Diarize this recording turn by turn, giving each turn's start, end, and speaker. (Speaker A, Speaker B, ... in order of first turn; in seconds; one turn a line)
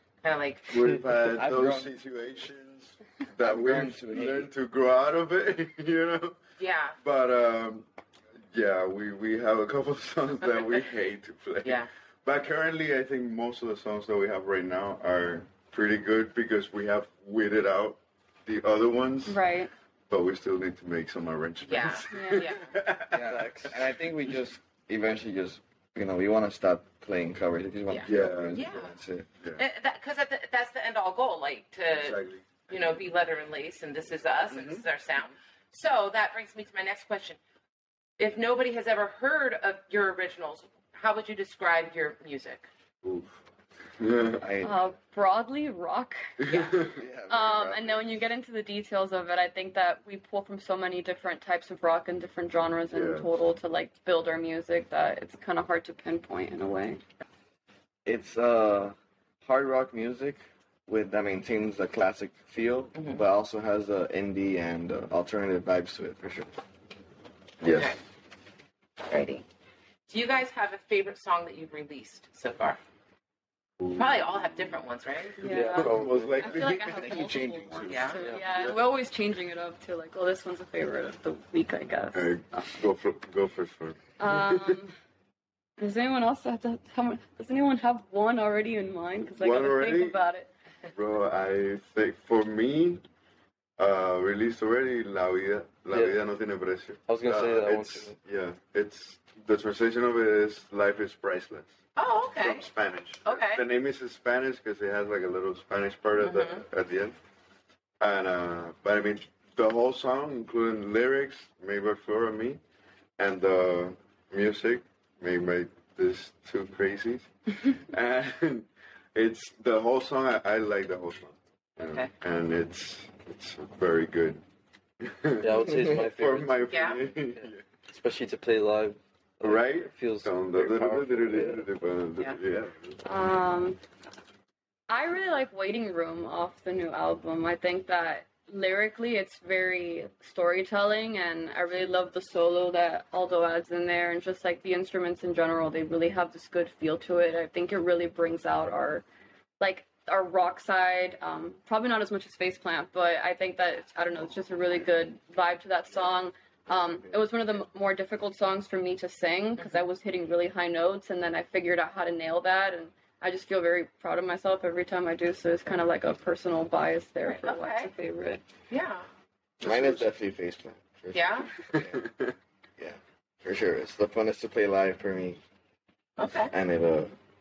Speaker A: 0.2-0.7
Speaker B: 0.7-6.4
Speaker C: 1.3-1.9
Speaker C: 3.4-4.5
Speaker A: 6.6-7.0
Speaker B: 7.0-7.8
Speaker B: 8.5-19.4
Speaker A: 11.6-11.9
Speaker D: 19.2-19.7
Speaker B: 20.1-23.8
Speaker A: 21.6-22.7
Speaker D: 22.1-22.5
Speaker C: 23.1-29.3
Speaker A: 27.9-28.9
Speaker B: 28.0-28.6
Speaker A: 29.5-37.4
Speaker B: 31.9-32.4
Speaker B: 34.5-34.8
Speaker A: 38.2-42.7
Speaker B: 43.0-43.4
Speaker B: 44.0-44.4
Speaker C: 44.4-44.9
Speaker D: 44.6-46.7
Speaker B: 46.4-47.0
Speaker C: 46.8-48.1
Speaker D: 47.3-57.0
Speaker B: 52.9-53.3
Speaker C: 58.0-66.5
Speaker A: 62.9-63.2
Speaker C: 67.6-67.9
Speaker A: 67.7-68.0
Speaker A: 69.0-69.4
Speaker A: 70.1-72.8
Speaker B: 73.8-74.6
Speaker A: 73.9-75.4
Speaker D: 75.4-82.7
Speaker E: 75.5-76.5
Speaker B: 75.8-77.6
Speaker C: 76.6-78.2
Speaker A: 77.8-78.2
Speaker B: 78.4-78.8
Speaker B: 82.1-84.8
Speaker D: 84.2-84.9
Speaker D: 85.8-90.5
Speaker B: 89.4-90.2
Speaker B: 90.9-93.0
Speaker B: 93.8-101.7
Speaker E: 95.9-96.2
Speaker E: 97.1-98.2
Speaker A: 102.0-102.7
Speaker B: 102.3-107.2
Speaker A: 103.2-103.6
Speaker A: 106.2-106.6
Speaker B: 108.0-112.6
Speaker B: 113.2-124.4
Speaker B: 125.0-127.6
Speaker E: 125.4-131.7
Speaker A: 126.7-127.0
Speaker B: 129.4-133.0
Speaker D: 133.0-133.8
Speaker D: 134.9-149.0
Speaker D: 149.6-168.4
Speaker A: 159.6-159.8
Speaker A: 167.2-167.9
Speaker A: 168.7-169.1
Speaker B: 169.6-170.1
Speaker C: 169.6-172.1
Speaker A: 171.1-171.5
Speaker B: 171.7-172.3
Speaker C: 172.8-175.4
Speaker A: 176.2-176.5
Speaker C: 176.4-177.1